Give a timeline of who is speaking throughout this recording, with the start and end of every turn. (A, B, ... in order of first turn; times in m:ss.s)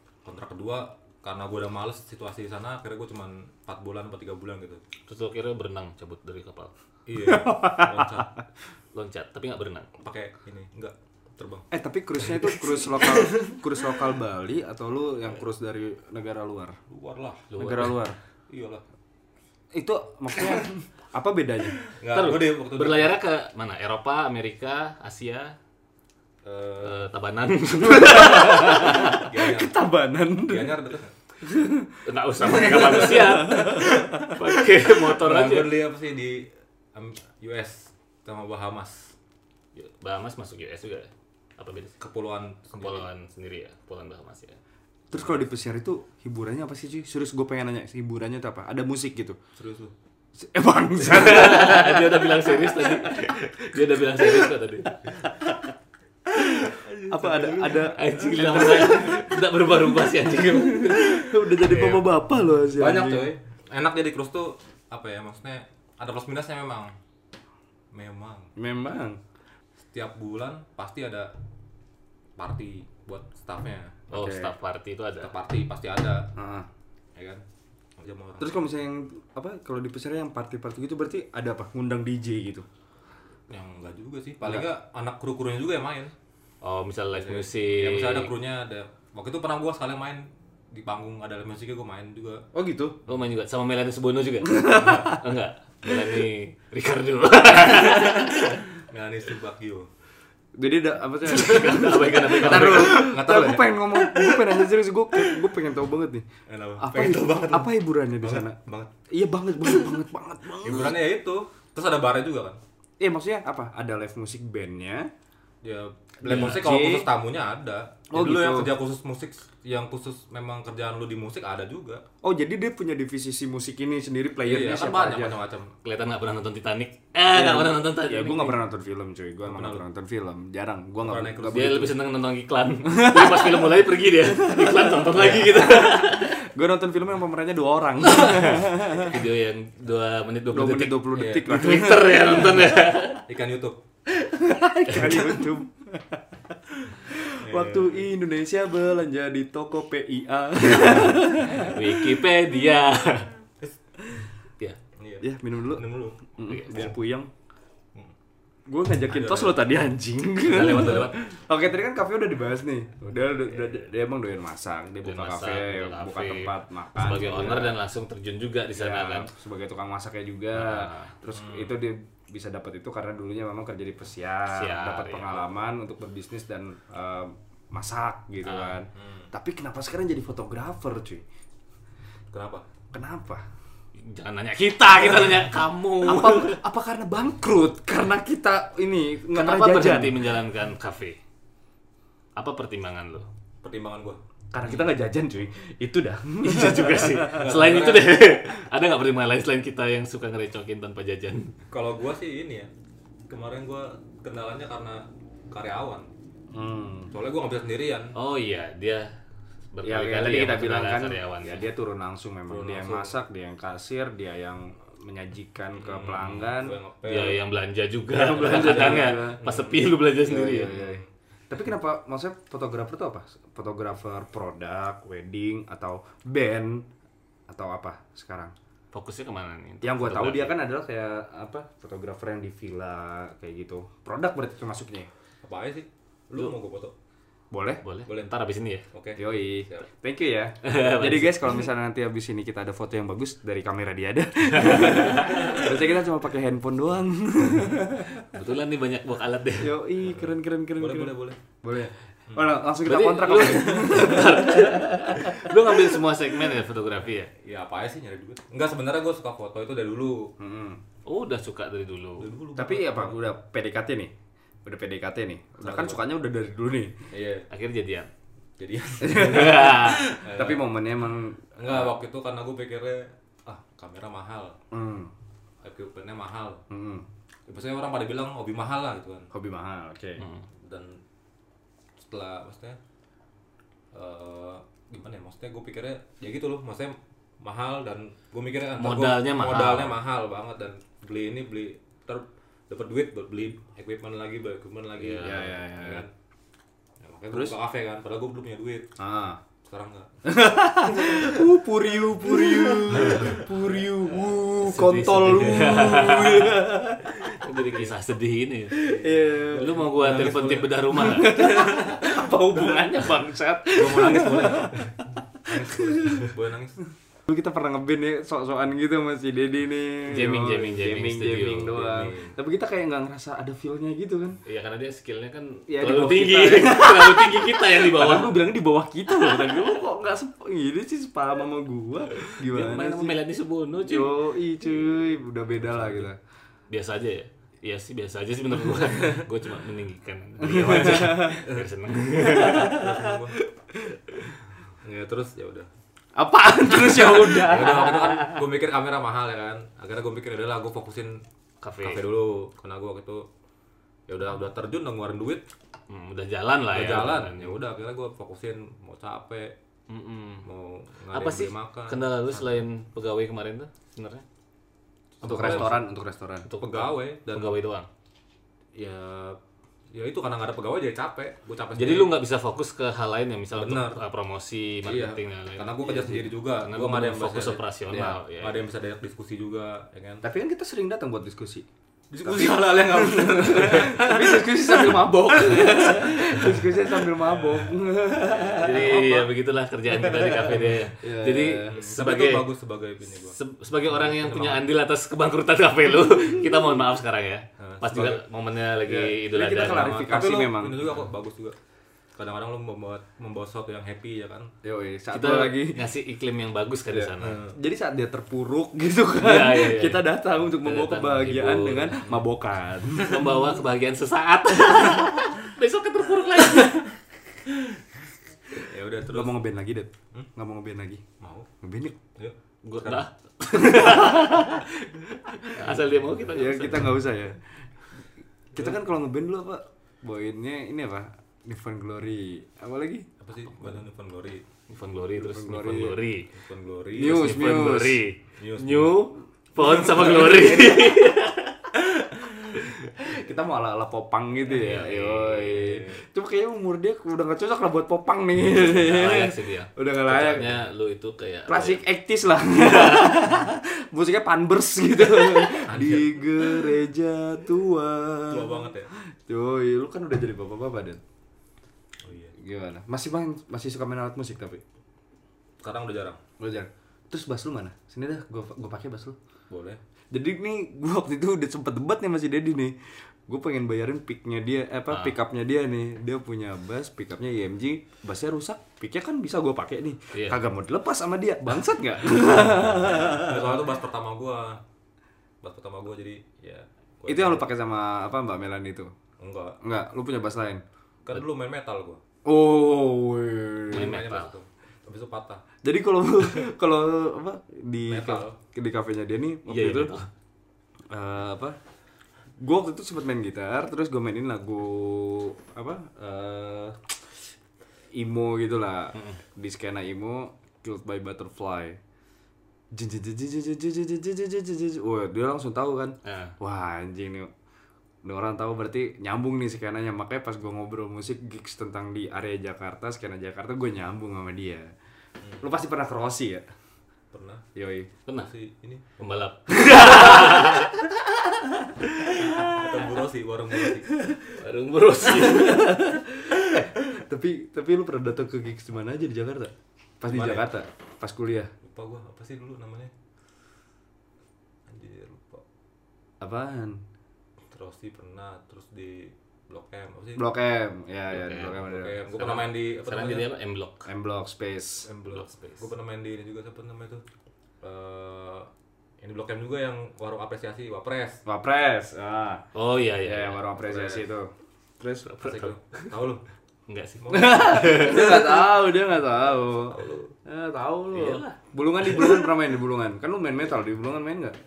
0:00.2-0:04.8 A
0:05.1-0:06.7 B
0:07.1-0:08.3 A
0:07.2-0:08.2 C
0:08.9-0:09.9 B
0:10.0-0:11.7 A
0:11.7-0:16.8 C
0:16.9-0:17.5 A
0:17.5-0:18.0 B
0:17.6-0:18.2 C
0:18.5-0:18.8 A
0:19.7-0:21.8 C
0:21.9-0:23.1 A
0:22.1-0:25.6 B
0:26.4-0:27.1 A
0:26.8-0:29.2 B
0:27.8-0:30.8 C
0:28.9-0:29.8 A
0:30.4-0:31.1 A
0:31.4-0:34.6 C
0:32.0-0:35.7 B
0:32.9-0:34.1 A
0:35.2-0:39.1 A
0:39.8-0:41.9 B
0:42.0-0:43.1 A
0:42.8-0:44.6 B
0:45.1-0:49.4 C
0:49.6-0:49.9 A
0:50.4-0:54.5 C
0:51.0-0:55.3 B
0:56.3-0:59.4 C
0:56.4-0:59.1 A
0:57.9-1:02.0 B
1:00.3-1:03.3 C
1:02.7-1:07.0 A
1:07.9-1:08.5 A
1:08.6-1:09.2 C
1:09.9-1:11.3 A
1:12.4-1:14.1 A
1:14.1-1:15.3 B
1:14.1-1:14.5 C
1:15.2-1:16.3 A
1:16.4-1:16.7 C
1:17.2-1:17.4 A
1:18.0-1:18.6 A
1:18.4-1:22.7 C
1:23.5-1:26.1 A
1:26.6-1:28.3 B
1:27.1-1:32.5 A
1:32.5-1:33.0 C
1:33.1-1:38.6 B
1:34.5-1:35.0 C
1:34.8-1:35.1 A
1:38.7-1:39.9 A
1:40.6-1:46.3 C
1:41.2-1:43.1 B
1:42.3-1:45.4 A
1:46.5-1:48.9 A
1:46.8-1:48.6 C
1:49.1-1:51.0 C
1:50.6-1:52.6 A
1:53.0-1:55.1 C
1:55.6-2:02.0 A
1:56.2-1:57.1 C
1:56.3-1:56.6 B
1:58.1-1:58.7 C
2:02.2-2:05.4 C
2:04.4-2:05.7 A
2:05.8-2:08.6 B
2:07.3-2:12.0 C
2:09.4-2:09.8 A
2:11.0-2:11.9 A
2:11.5-2:16.4 B
2:12.8-2:19.2 C
2:18.2-2:23.2 B
2:20.5-2:22.6 C
2:21.1-2:21.6 A
2:23.2-2:23.8 A
2:24.1-2:32.2 C
2:27.4-2:28.1 A
2:30.8-2:33.3 B
2:35.0-2:36.2 A
2:35.2-2:37.3 C
2:36.4-2:36.9 B
2:38.7-2:47.8 C
2:39.1-2:39.7 A
2:40.4-2:41.2 B
2:45.0-2:49.3 B
2:48.8-3:01.2 C
2:50.5-2:51.1 B
2:51.3-2:51.8 A
2:54.5-2:55.6 B
2:58.4-2:58.8 B
2:59.0-2:59.3 A
3:02.3-3:02.6 A
3:02.9-3:03.4 C
3:04.0-3:06.6 B
3:04.6-3:10.3 C
3:09.3-3:11.2 B
3:12.4-3:13.3 B
3:13.6-3:14.2 A
3:14.5-3:17.6 C
3:16.4-3:21.5 B
3:17.3-3:18.2 A
3:21.7-3:22.7 A
3:23.3-3:26.1 A
3:26.5-3:27.1 C
3:27.1-3:28.1 A
3:28.2-3:29.1 B
3:29.7-3:31.7 B
3:29.8-3:36.8 C
3:32.5-3:33.2 A
3:35.8-3:37.4 A
3:37.0-3:40.8 B
3:38.1-3:39.4 C
3:38.3-3:39.9 A
3:40.2-3:46.9 C
3:40.6-3:41.1 A
3:47.5-3:48.5 C
3:48.9-3:50.6 B
3:49.8-3:55.1 C
3:55.4-3:56.9 A
3:57.5-3:57.8 C
3:57.8-3:58.8 B
3:58.9-3:59.9 A
3:59.2-4:08.2 C
4:00.6-4:01.6 B
4:04.6-4:05.4 B
4:05.2-4:05.7 A
4:08.3-4:09.8 B
4:09.6-4:15.8 C
4:10.0-4:11.4 A
4:12.3-4:12.6 A
4:12.8-4:17.3 B
4:17.4-4:20.3 A
4:20.4-4:20.8 C
4:21.1-4:22.3 B
4:22.2-4:23.2 A
4:22.6-4:24.1 C
4:24.6-4:27.0 C
4:25.6-4:26.0 A
4:27.1-4:27.5 A
4:27.5-4:28.1 B
4:28.6-4:30.7 A
4:29.0-4:31.9 C
4:29.1-4:30.1 B
4:31.6-4:34.6 A
4:34.7-4:35.1 C
4:35.6-4:36.6 A
4:36.7-4:37.1 C
4:37.5-4:39.3 A
4:39.3-4:40.2 C
4:40.6-4:41.0 A
4:42.0-4:42.8 A
4:43.9-4:56.1 A
4:48.8-4:50.0 B
4:55.0-4:55.6 B
4:55.2-4:56.1 C
4:57.0-4:58.9 A
4:57.3-4:57.6 C
4:59.0-4:59.4 C
4:59.6-5:00.3 A
5:00.2-5:07.4 C
5:01.0-5:01.4 A
5:02.9-5:03.6 A
5:03.1-5:03.3 B
5:04.6-5:06.6 B
5:07.2-5:08.9 B
5:08.7-5:09.8 C
5:09.5-5:11.6 B
5:09.6-5:10.8 A
5:10.9-5:14.9 C
5:13.8-5:16.8 A
5:15.5-5:16.3 C
5:17.3-5:24.4 C
5:20.1-5:21.9 B
5:21.7-5:22.4 A
5:24.4-5:28.4 B
5:25.7-5:33.2 C
5:29.4-5:29.7 B
5:32.2-5:34.2 B
5:33.8-5:36.2 C
5:35.6-5:36.1 B
5:36.7-5:42.8 B
5:40.4-5:41.4 C
5:41.2-5:41.7 A
5:42.3-5:43.4 A
5:42.3-5:43.2 C
5:43.7-5:44.3 C
5:44.8-5:45.7 A
5:46.2-5:48.5 C
5:46.9-5:51.2 A
5:51.6-5:52.0 B
5:51.8-5:53.3 A
5:54.1-5:55.5 A
5:55.9-5:57.6 B
5:56.7-5:59.6 A
5:59.9-6:00.5 B
6:00.4-6:02.6 A
6:01.1-6:04.2 B
6:05.2-6:05.8 A
6:05.2-6:06.5 C
6:05.2-6:05.8 B
6:06.5-6:07.9 B
6:06.6-6:07.6 A
6:08.8-6:09.4 A
6:09.9-6:12.1 A
6:11.8-6:18.6 B
6:13.6-6:14.0 A
6:14.8-6:20.2 A
6:15.9-6:16.2 C
6:20.2-6:21.7 C
6:22.1-6:26.2 A
6:22.2-6:29.3 C
6:27.1-6:27.8 A
6:28.5-6:32.5 B
6:30.0-6:31.8 C
6:31.7-6:33.4 A
6:33.2-6:40.0 B
6:33.9-6:34.7 A
6:37.6-6:38.2 A
6:38.8-6:41.0 C
6:39.6-6:41.6 A
6:42.2-6:44.5 A
6:44.6-6:45.8 C
6:45.1-6:47.4 B
6:46.9-6:53.4 C
6:47.2-6:47.6 A
6:49.2-6:52.2 B
6:52.9-6:56.9 B
6:58.5-6:59.4 A
6:59.1-7:01.0 C
7:01.2-7:01.5 A
7:01.6-7:02.0 C
7:02.2-7:03.1 A
7:02.6-7:04.7 B
7:03.5-7:04.6 C
7:05.3-7:05.6 C
7:05.4-7:06.9 B
7:06.2-7:07.6 C
7:08.5-7:13.1 C
7:13.2-7:14.4 A
7:14.7-7:16.3 B
7:15.2-7:16.0 C
7:16.3-7:17.3 A
7:17.0-7:18.0 C
7:17.0-7:21.6 B
7:18.4-7:19.1 A
7:19.6-7:21.0 C
7:19.9-7:20.7 A
7:22.6-7:30.6 C
7:24.4-7:25.8 B
7:25.5-7:26.0 A
7:28.5-7:31.8 B
7:31.5-7:41.0 C
7:32.7-7:33.2 B
7:35.2-7:36.7 A
7:38.3-7:38.9 A
7:42.0-7:42.3 A
7:42.4-7:44.6 C
7:45.6-7:46.2 A
7:46.4-7:49.2 C
7:49.5-7:49.8 A
7:50.1-8:03.6 C
8:00.1-8:00.4 B
8:02.9-8:04.6 A
8:05.4-8:07.5 A
8:07.1-8:08.9 C
8:09.2-8:09.6 A
8:09.6-8:10.6 C
8:11.1-8:12.0 A
8:12.2-8:14.0 C
8:13.7-8:15.4 A
8:13.7-8:14.4 B
8:15.6-8:19.9 C
8:17.9-8:18.4 A
8:19.5-8:20.1 B
8:20.9-8:21.6 C
8:22.4-8:27.1 C
8:27.9-8:31.8 C
8:32.7-8:37.3 C
8:36.0-8:36.4 B
8:38.0-8:44.7 C
8:45.4-8:46.4 C
8:47.1-8:47.4 A
8:47.6-8:47.9 C
8:48.2-8:48.8 A
8:49.0-8:50.8 B
8:49.5-8:50.9 C
8:52.2-8:54.1 A
8:54.3-8:55.8 B
8:55.0-9:01.5 C
9:00.0-9:00.5 A
9:01.6-9:02.9 A
9:04.7-9:05.4 A
9:06.2-9:06.8 C
9:07.5-9:10.3 A
9:10.2-9:12.0 C
9:11.1-9:13.9 B
9:11.6-9:13.3 A
9:13.9-9:14.9 C
9:14.8-9:17.0 A
9:15.0-9:15.7 B
9:17.6-9:18.5 A
9:19.0-9:21.2 A
9:21.3-9:22.5 C
9:22.5-9:23.4 B
9:23.0-9:25.5 C
9:23.6-9:24.1 A
9:25.1-9:25.9 B
9:25.2-9:26.2 A
9:26.7-9:28.2 B
9:27.0-9:30.2 A
9:27.1-9:34.4 C
9:30.9-9:31.4 B